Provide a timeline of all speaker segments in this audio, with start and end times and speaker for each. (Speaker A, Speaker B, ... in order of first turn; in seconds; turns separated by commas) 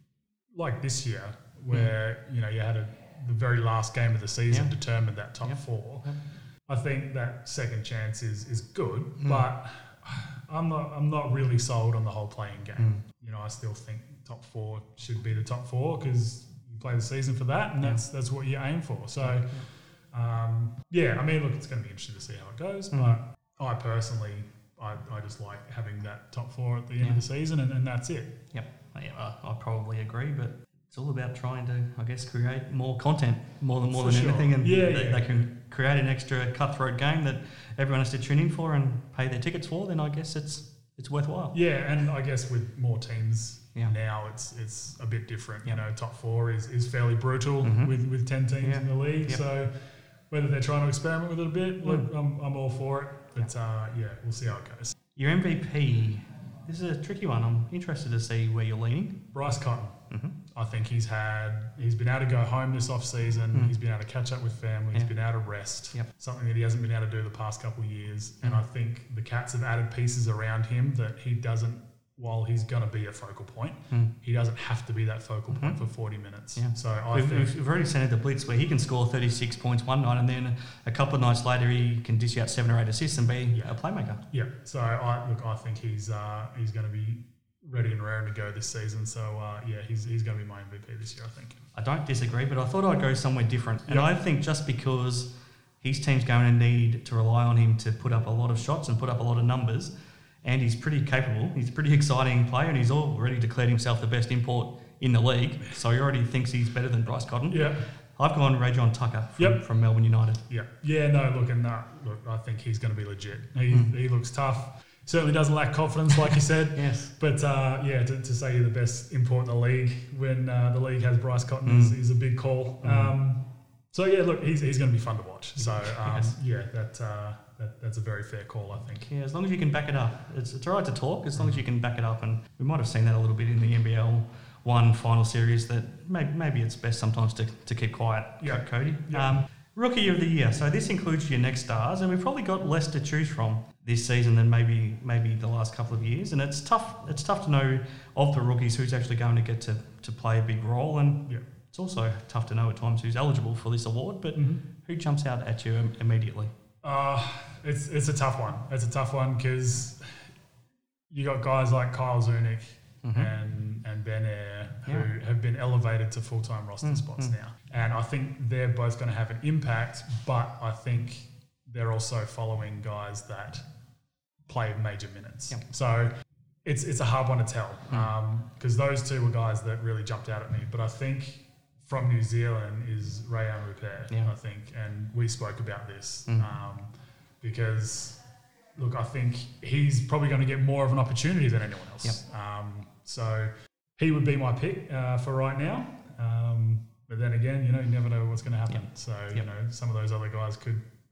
Speaker A: 0.5-28.4, Speaker B: 5.4-6.2, Speaker B: 9.2-9.4, Speaker B: 19.2-19.7, Speaker B: 22.9-23.2, Speaker B: 28.5-41.6, Speaker A: 33.9-35.4, Speaker A: 41.5-49.7, Speaker B: 47.6-48.0, Speaker B: 48.6-49.4, Speaker A: 50.3-54.9, Speaker B: 51.8-52.1, Speaker B: 55.2-59.2, Speaker A: 59.3-77.5, Speaker B: 60.1-60.4, Speaker B: 75.5-75.8, Speaker B: 76.5-84.2, Speaker A: 83.5-91.6, Speaker B: 91.8-99.9, Speaker B: 100.4-110.4, Speaker A: 107.5-107.8, Speaker A: 110.5-129.1, Speaker B: 116.8-117.1, Speaker B: 121.7-122.0, Speaker B: 122.8-123.1, Speaker B: 125.6-126.3, Speaker B: 129.1-156.5, Speaker A: 138.4-139.3, Speaker A: 154.3-154.6, Speaker A: 156.8-160.2, Speaker A: 161.1-173.7, Speaker B: 163.0-163.3, Speaker B: 166.8-167.3, Speaker A: 174.5-176.1, Speaker A: 176.7-188.2, Speaker A: 188.8-200.9, Speaker B: 198.7-199.5